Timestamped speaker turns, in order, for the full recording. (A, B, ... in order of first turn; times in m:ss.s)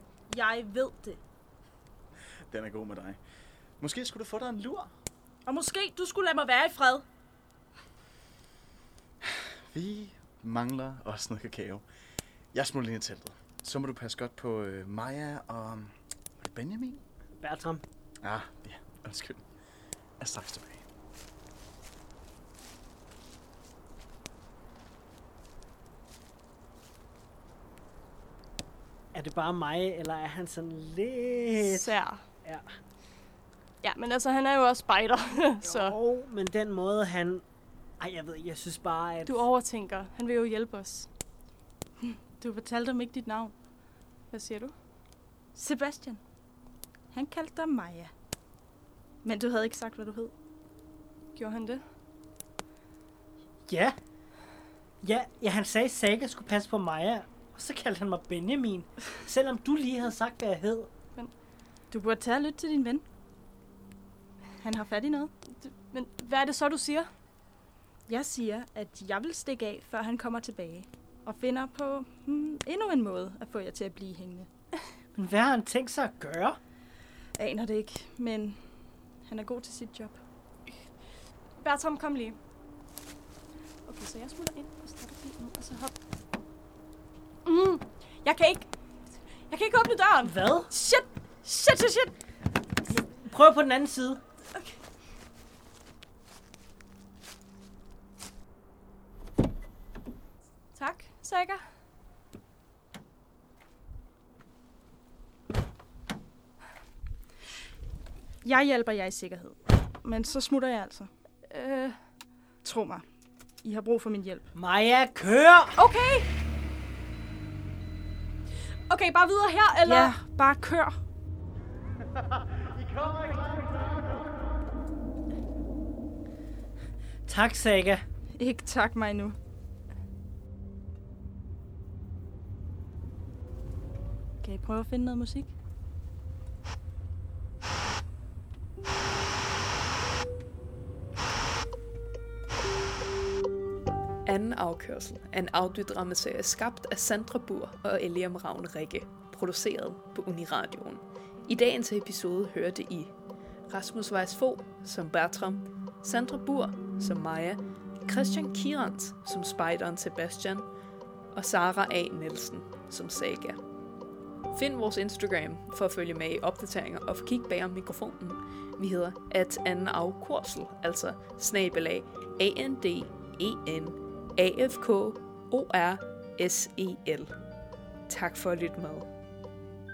0:00.3-0:01.2 A
0:02.5-0:03.2 B
0:03.8-0:04.9 B
0:05.5-0:07.1 A
0:09.2-0:11.8 B
0:12.5-0:17.0 B
0:17.4-0:17.8 C
0:18.2-0:19.4 B
0:20.2-0:20.8 B
0:29.1-0:32.7 C
0:31.6-0:32.2 D
0:33.8-0:36.0 D
0:35.6-0:37.4 C
0:38.0-0:39.4 C
0:39.3-0:41.1 D
0:42.0-0:43.5 A
0:44.3-0:44.7 D
0:45.6-0:46.2 A
0:47.1-0:48.1 A
0:49.2-0:50.3 A
0:51.4-0:51.8 D
0:53.7-0:54.0 C
0:55.0-1:00.9 C
1:01.9-1:03.0 A
1:04.6-1:05.3 A
1:05.5-1:07.1 D
1:08.1-1:14.5 A
1:15.2-1:16.6 C
1:17.4-1:18.6 A
1:19.3-1:20.2 A
1:21.6-1:22.4 D
1:23.9-1:25.9 D
1:27.4-1:28.7 D
1:29.5-1:32.1 D
1:30.2-1:30.7 C
1:32.9-1:34.2 C
1:40.8-1:41.6 D
1:48.4-1:51.1 A
1:51.5-1:52.0 D
1:52.6-1:53.0 A
1:53.6-1:54.5 A
1:54.5-1:55.8 C
1:55.8-1:56.3 D
1:58.9-2:00.1 D
1:59.8-2:01.0 A
2:03.0-2:03.3 B
2:07.3-2:08.0 C
2:08.4-2:09.4 A
2:14.4-2:15.5 A
2:24.3-2:33.1 E
2:33.7-2:40.7 E
2:41.3-2:43.6 E
2:44.5-2:57.3 E
2:58.1-2:59.1 E